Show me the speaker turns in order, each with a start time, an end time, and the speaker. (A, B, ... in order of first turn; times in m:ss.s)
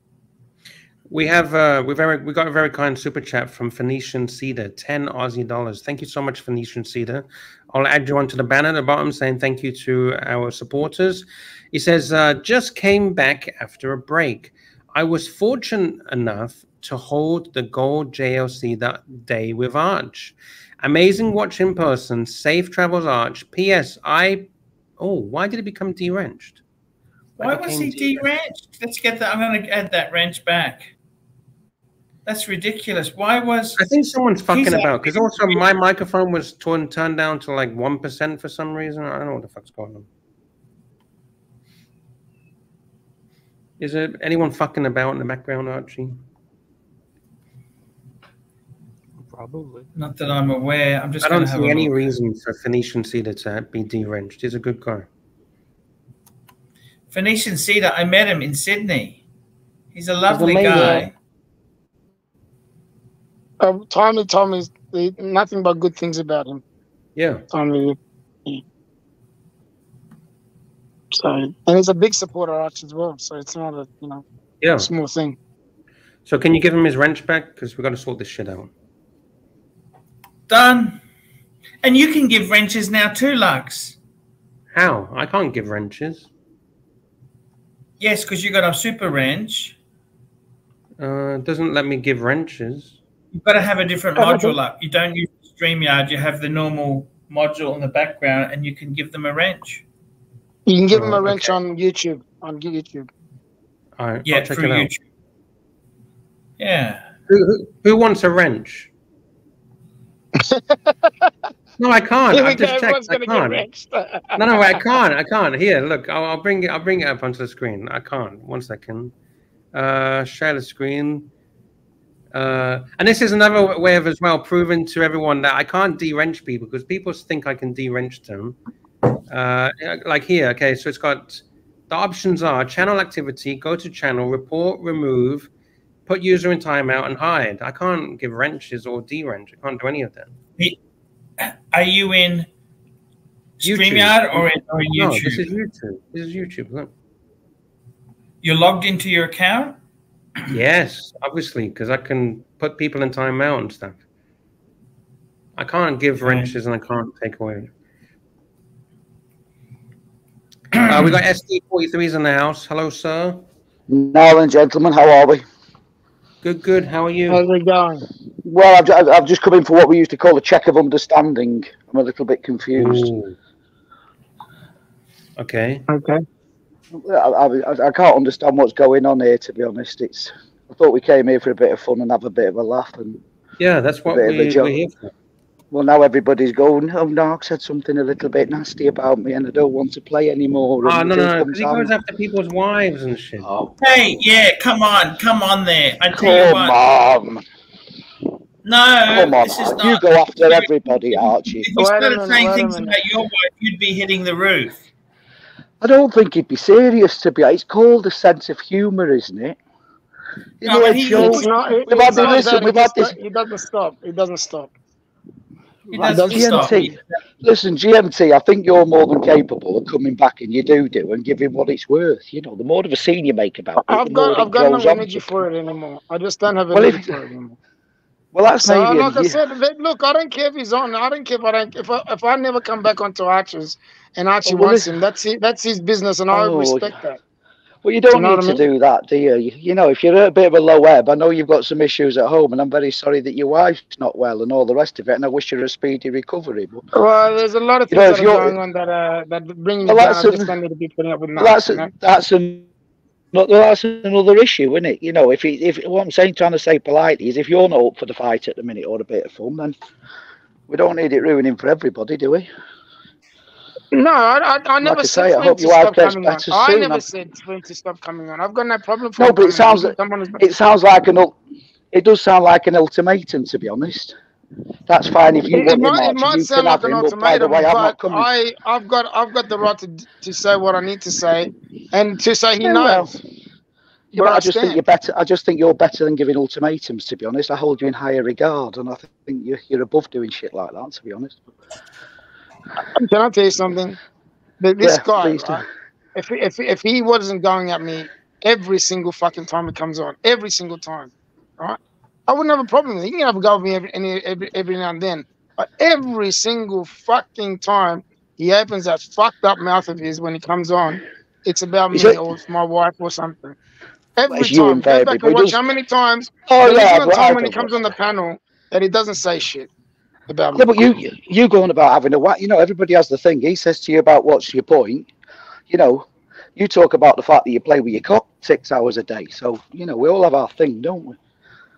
0:01.1-0:24.5 A
0:25.0-0:26.6 A
0:27.4-0:30.9 B
0:27.4-0:28.3 A
0:32.3-0:33.8 B
0:33.8-0:40.1 A
0:34.5-0:35.6 B
0:43.8-0:46.2 A
0:49.2-0:49.9 A
0:50.0-0:52.0 B
0:51.2-0:55.1 A
0:57.1-0:59.2 B
0:59.9-1:01.1 B
1:00.3-1:01.1 A
1:03.6-1:06.6 C
1:07.2-1:07.4 A
1:07.5-1:08.6 C
1:11.2-1:14.2 C
1:14.6-1:14.9 A
1:14.8-1:15.4 C
1:16.3-1:18.7 A
1:20.5-1:21.0 B
1:21.8-1:24.0 B
1:24.7-1:26.3 A
1:28.0-1:29.8 B
1:31.0-1:33.0 A
1:33.3-1:39.8 B
1:34.2-1:34.6 C
1:40.7-1:43.1 C
1:40.9-1:41.5 A
1:44.0-1:44.9 A
1:44.3-1:45.0 B
1:46.6-1:47.0 B
1:47.3-1:48.9 A
1:50.4-1:51.3 C
1:51.8-1:53.7 A
1:52.3-1:54.5 C
1:54.4-1:59.1 A
1:59.7-2:01.3 A
2:02.3-2:08.6 A
2:09.3-2:15.5 A
2:16.1-2:20.3 A
2:21.4-2:22.5 B
2:23.6-2:25.5 B
2:23.6-2:26.9 A
2:28.4-2:29.8 B
2:30.5-2:34.0 A
2:35.6-2:37.7 A
2:36.2-2:36.5 B
2:40.8-2:41.2 B
2:40.9-2:43.4 A
2:43.9-2:45.4 D
2:46.4-2:47.4 A
2:47.3-2:48.1 C
2:48.4-2:53.1 D
2:52.8-2:53.4 A
2:55.4-2:55.8 A
2:55.9-2:56.2 C
2:56.9-3:03.2 D
3:03.6-3:05.1 A
3:04.1-3:04.7 D
3:05.7-3:11.9 D
3:10.8-3:13.5 A
3:13.4-3:13.7 D
3:13.8-3:16.8 B
3:16.1-3:17.4 D
3:18.6-3:24.8 B
3:19.1-3:21.7 D
3:21.7-3:23.0 C
3:25.8-3:29.6 D
3:30.6-3:33.2 D
3:30.6-3:32.4 B
3:31.0-3:34.7 C
3:35.9-3:45.5 D
3:35.9-3:36.9 B
3:36.1-3:36.5 C
3:43.9-3:47.6 C
3:46.7-3:47.2 D
3:48.3-3:49.4 D
3:48.6-3:57.2 C
3:54.4-3:55.0 D
3:56.3-3:57.0 D
3:57.8-4:06.8 D
3:58.1-3:58.6 C
4:06.9-4:11.9 C
4:07.9-4:08.6 D
4:09.8-4:10.6 D
4:11.4-4:12.7 D
4:13.3-4:19.8 D
4:20.7-4:22.5 D
4:23.9-4:30.4 C
4:24.8-4:27.1 D
4:29.2-4:31.4 D
4:31.9-4:34.2 D
4:34.9-4:38.3 D
4:35.5-4:43.1 C
4:42.6-4:43.2 D
4:44.1-4:51.6 D
4:44.2-4:44.8 C
4:53.0-4:54.0 C
4:54.6-4:55.6 C
4:54.8-4:55.7 D
4:56.2-5:13.6 C
5:11.9-5:12.2 D
5:14.2-5:19.7 C
5:14.3-5:15.6 D
5:16.4-5:18.0 D
5:20.3-5:20.8 C
5:20.5-5:25.1 D
5:25.7-5:31.2 D